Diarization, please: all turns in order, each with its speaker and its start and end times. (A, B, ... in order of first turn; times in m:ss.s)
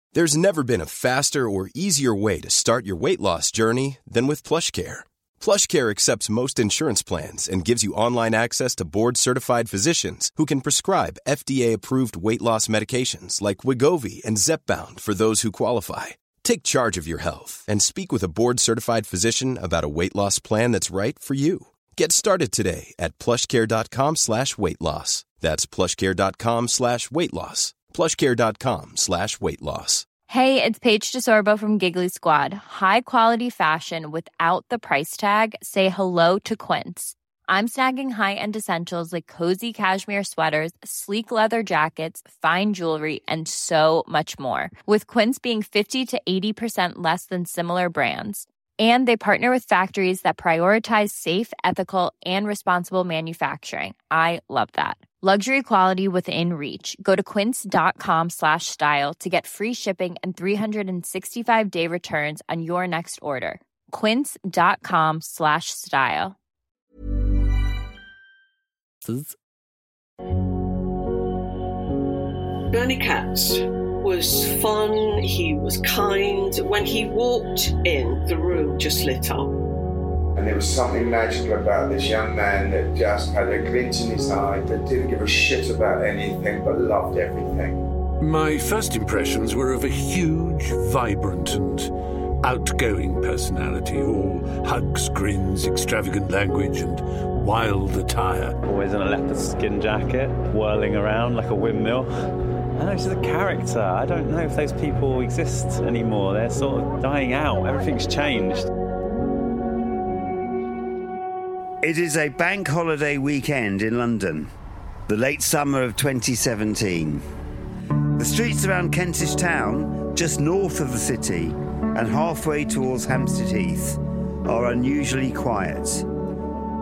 0:00.1-0:30.0 A
0:30.3-1:06.4 B
1:12.7-1:19.6 C
1:20.4-1:27.8 D
1:28.2-1:31.9 E
1:32.4-1:38.6 E
1:38.6-1:42.1 F
1:42.8-1:48.7 F
1:51.8-1:54.5 G
1:55.1-1:57.2 G
1:58.2-2:06.1 G